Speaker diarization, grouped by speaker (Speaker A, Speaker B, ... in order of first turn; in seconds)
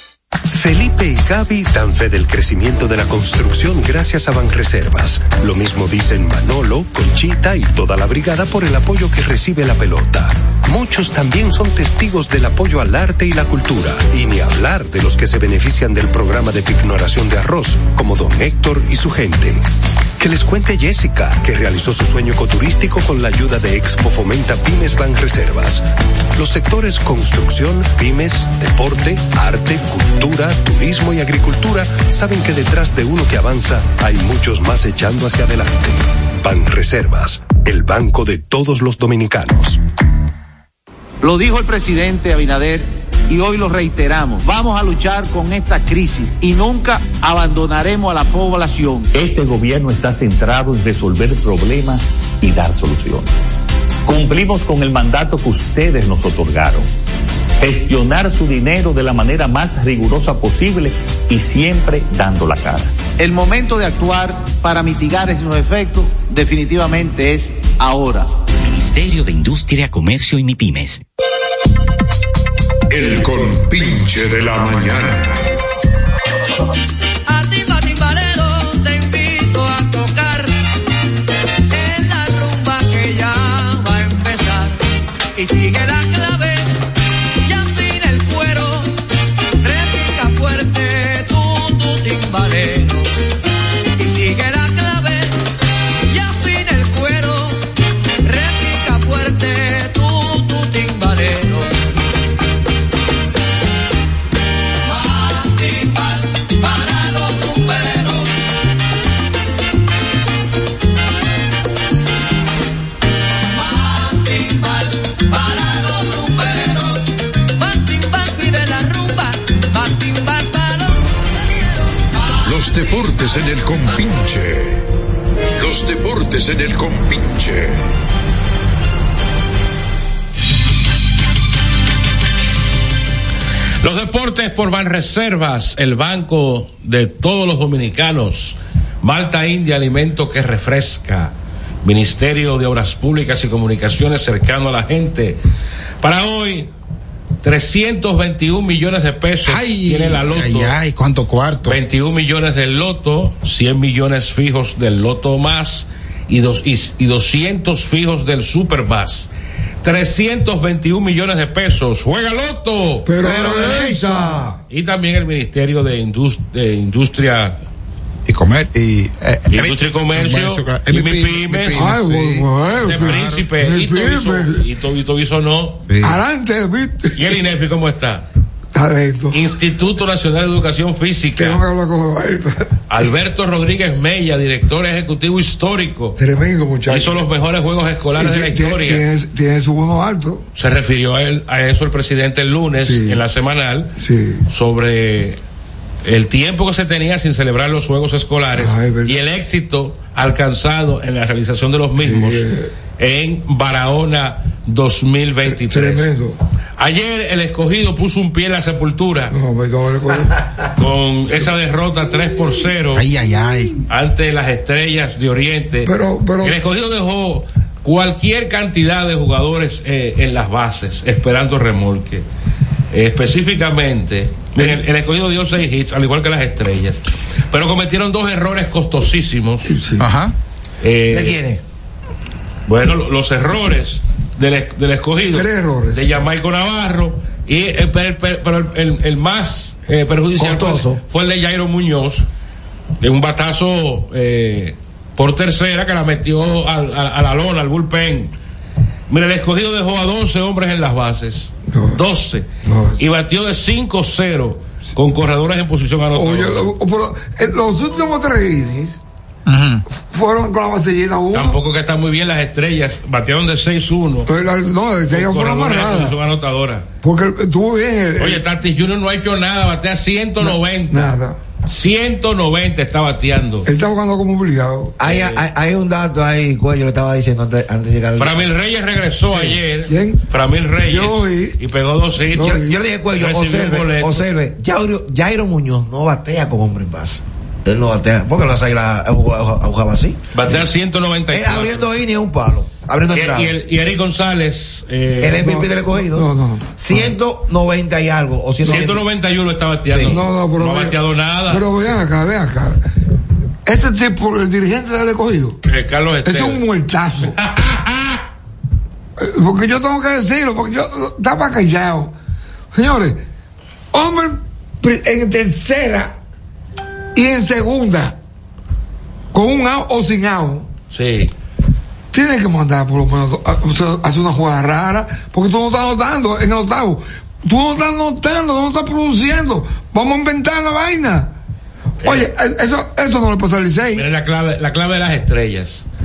Speaker A: 0.5-19.6, 20.2-25.8, 26.3-39.8
Speaker B: 41.2-49.1, 63.2-68.3
Speaker C: 49.1-53.3, 54.0-56.9, 57.6-62.9
Speaker D: 68.6-71.0
Speaker E: 72.9-75.5, 122.4-124.9, 125.6-127.8
Speaker F: 77.3-80.5, 81.7-84.8, 85.3-86.8, 87.4-88.9, 89.6-93.1, 94.0-95.4, 96.1-97.6, 98.2-101.7, 105.0-106.1, 106.6-108.2, 113.8-116.9, 117.6-121.0
Speaker G: 133.8-145.4, 146.0-146.7, 147.4-150.8, 151.7-159.3, 159.8-163.1, 164.7-167.6, 169.5-171.9, 172.8-175.8, 177.1-178.2, 179.3-181.6, 182.9-186.2, 186.9-189.0, 190.5-193.9, 194.5-195.4, 196.0-202.4, 203.0-206.1, 206.8-209.3, 210.8-213.1, 213.9-222.2, 222.9-229.7, 230.8-231.4, 232.7-242.2, 243.0-248.3, 249.1-252.5, 253.0-256.7, 261.3-264.3, 265.1-266.9, 268.2-271.1, 271.6-273.7, 275.0-275.4, 278.2-282.6, 283.1-284.3, 290.3-291.9, 293.1-295.5, 298.6-301.6, 305.6-306.6, 307.2-308.2, 320.9-321.3, 332.0-332.3, 333.9-335.8
Speaker H: 149.4-151.8, 168.2-173.4, 175.9-176.2, 212.9-213.8, 230.0-230.3, 259.4-259.8
Speaker I: 163.1-164.5, 171.7-174.6, 176.0-177.4, 178.7-179.4, 181.4-182.7, 186.2-187.2, 188.2-190.4, 192.8-193.2, 194.0-194.4, 198.5-199.2, 202.0-202.7, 205.4-206.4, 209.3-210.5, 215.8-216.6, 229.7-230.1, 235.3-236.1, 251.7-252.0, 252.6-253.0, 256.1-259.0, 260.1-261.6, 264.3-266.1, 267.0-268.4, 270.4-271.4, 273.6-275.0, 279.3-280.2, 280.8-281.6, 282.3-282.8, 295.4-297.1, 300.1-301.0, 301.5-302.8, 303.6-305.6, 306.2-307.4, 309.2-312.1, 312.7-313.2, 313.9-316.1, 317.1-318.2, 319.3-320.7, 322.1-331.3, 332.0-334.0
Speaker J: 163.2-164.6, 231.1-231.6, 240.4-241.0, 275.0-278.5, 282.4-290.6, 291.3-293.5, 295.2-299.0, 299.9-300.2